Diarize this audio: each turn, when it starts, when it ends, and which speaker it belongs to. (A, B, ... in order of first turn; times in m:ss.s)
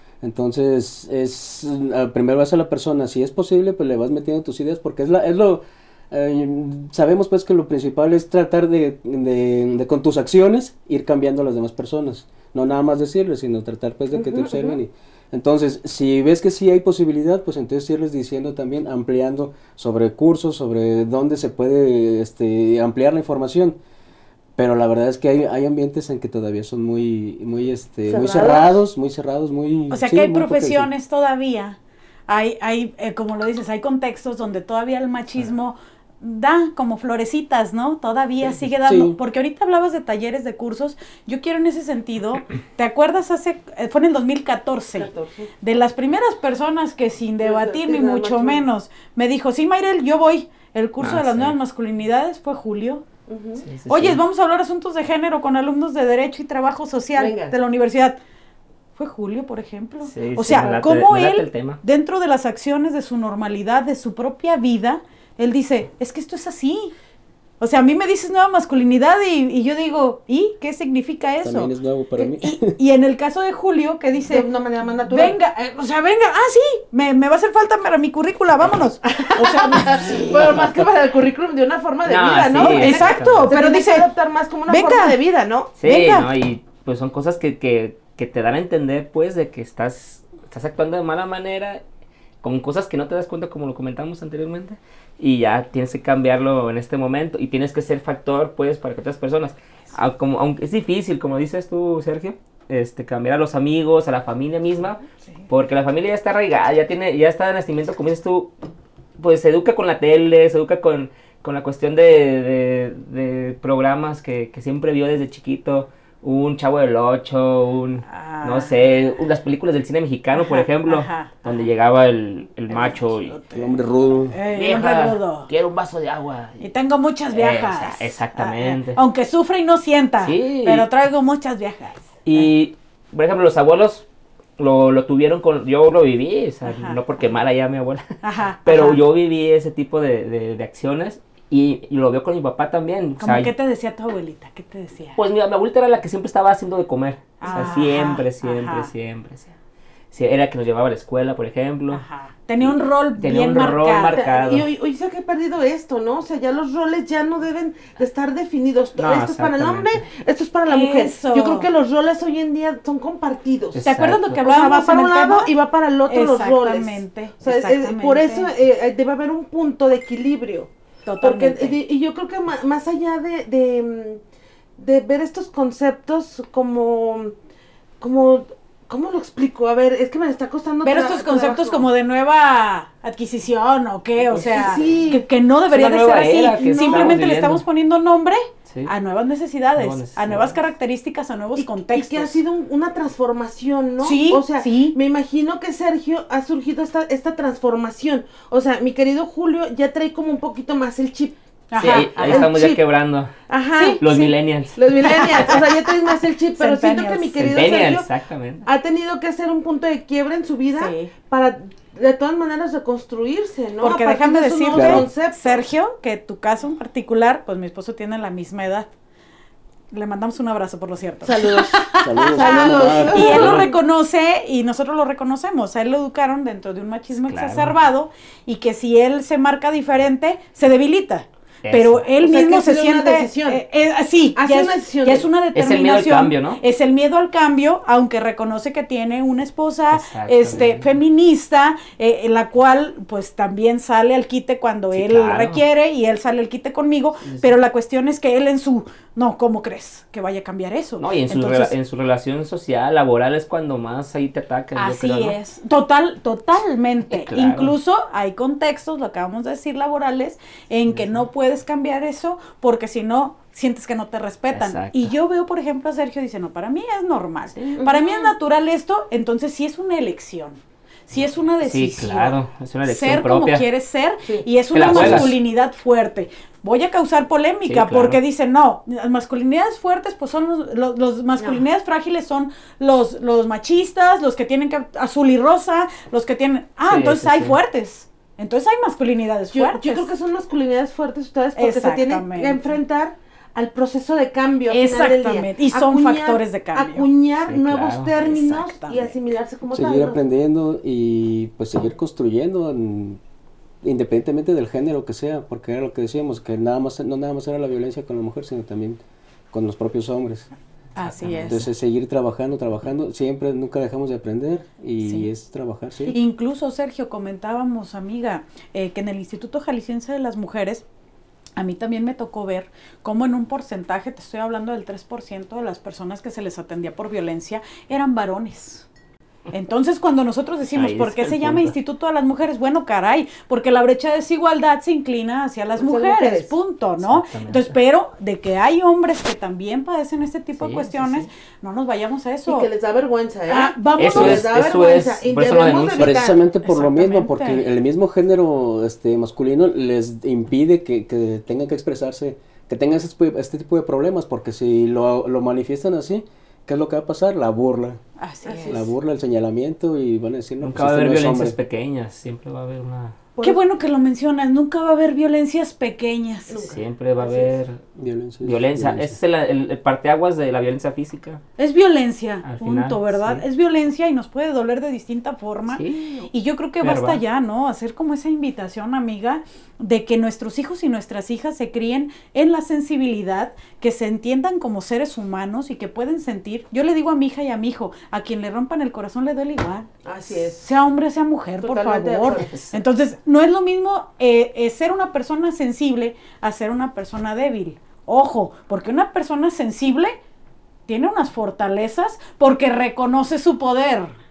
0:00.2-0:23.8 A
0:14.1-0:14.8 B
0:24.6-0:30.9 A
0:28.0-0:28.7 C
0:29.9-0:53.0 C
0:38.4-0:39.2 A
0:44.9-0:45.5 B
0:47.4-0:48.6 B
0:51.0-0:51.5 D
0:53.3-0:53.6 B
0:53.6-0:54.2 D
0:53.9-0:58.2 C
0:57.1-0:57.5 B
0:59.0-1:06.9 C
1:00.1-1:01.8 D
1:07.6-1:14.4 C
1:11.4-1:12.8 A
1:14.3-1:15.4 B
1:15.1-1:20.6 C
1:19.4-1:25.7 B
1:22.0-1:23.6 D
1:22.6-1:24.1 C
1:24.7-1:25.2 C
1:25.8-1:31.8 D
1:25.8-1:26.3 C
1:32.4-1:48.5 D
1:49.2-2:03.4 D
1:58.1-1:58.7 C
2:00.4-2:01.6 C
2:02.7-2:03.8 C
2:03.5-2:04.3 A
2:04.3-2:05.5 C
2:04.5-2:06.7 D
2:06.6-2:12.4 C
2:07.3-2:09.0 D
2:10.2-2:10.9 D
2:12.2-2:14.0 D
2:14.6-2:23.5 D
2:16.6-2:17.0 C
2:18.2-2:19.0 C
2:23.2-2:25.2 C
2:25.2-2:29.5 D
2:27.4-2:28.9 C
2:30.1-2:32.0 D
2:31.9-2:34.3 C
2:32.6-2:34.7 D
2:34.1-2:43.8 B
2:39.0-2:40.0 D
2:40.6-2:41.7 C
2:43.7-2:44.4 D
2:43.8-2:45.5 C
2:44.4-2:54.2 B
2:46.1-2:48.5 C
2:51.0-2:51.8 C
2:54.8-2:57.3 B
2:58.0-3:01.8 B
3:00.8-3:12.4 C
3:04.2-3:05.2 B
3:04.6-3:05.0 D
3:05.7-3:07.6 D
3:06.6-3:07.2 B
3:09.8-3:10.6 D
3:11.6-3:21.3 B
3:14.0-3:15.0 C
3:21.7-3:22.5 C
3:21.8-3:23.4 D
3:21.9-3:22.8 B
3:23.5-3:28.1 B
3:23.8-3:24.0 C
3:24.0-3:25.6 D
3:25.0-3:25.7 C
3:26.6-3:27.7 C
3:27.5-3:28.6 D
3:28.6-3:35.6 B
3:30.7-3:31.1 C
3:33.8-3:38.9 C
3:34.7-3:35.1 A
3:39.9-4:11.7 C
3:41.2-3:43.7 B
3:42.0-3:43.6 A
3:47.3-3:47.7 D
3:51.6-3:52.0 D
3:52.2-3:53.6 B
3:54.4-3:55.3 B
3:55.5-3:56.6 D
3:59.9-4:00.9 D
4:04.9-4:05.6 D
4:07.2-4:07.5 D
4:11.0-4:15.4 D
4:14.8-4:50.1 C
4:17.1-4:17.7 D
4:20.9-4:21.2 D
4:24.5-4:25.1 D
4:27.5-4:28.0 D
4:27.7-4:28.1 B
4:31.6-4:33.6 D
4:34.2-4:35.1 B
4:34.7-4:35.3 D
4:34.9-4:35.3 A
4:37.6-4:38.2 D
4:46.8-4:47.6 D
4:49.5-5:00.2 B
4:51.5-4:52.8 C
4:54.7-4:57.1 C
4:57.4-4:58.1 D
4:58.1-4:59.2 C
4:59.7-5:03.2 A
5:03.8-5:10.5 A
5:11.0-5:11.7 C
5:11.0-5:11.6 D
5:11.3-5:16.1 A
5:15.0-5:15.3 C
5:16.1-5:20.8 C
5:21.6-5:28.8 C
5:29.5-5:42.7 C
5:30.7-5:31.7 D
5:35.8-5:36.5 B
5:37.0-5:37.7 D
5:40.6-5:41.3 D
5:42.5-5:46.4 B
5:43.5-5:44.4 C
5:44.0-5:46.2 D
5:44.2-5:44.4 A
5:46.0-5:58.0 A
5:46.6-5:47.6 C
5:58.2-5:58.8 C
5:58.4-5:58.9 B
5:58.6-6:01.6 A
6:00.6-6:03.2 D
6:03.4-6:06.6 C
6:06.5-6:07.5 B
6:06.6-6:07.8 D
6:08.0-6:09.1 A
6:08.4-6:11.4 D
6:11.6-6:29.9 C
6:12.4-6:13.4 D
6:15.7-6:16.2 D
6:16.8-6:17.2 D
6:30.0-6:30.6 B
6:30.5-6:40.2 C
6:31.6-6:32.6 B
6:32.4-6:32.7 D
6:40.9-6:44.1 C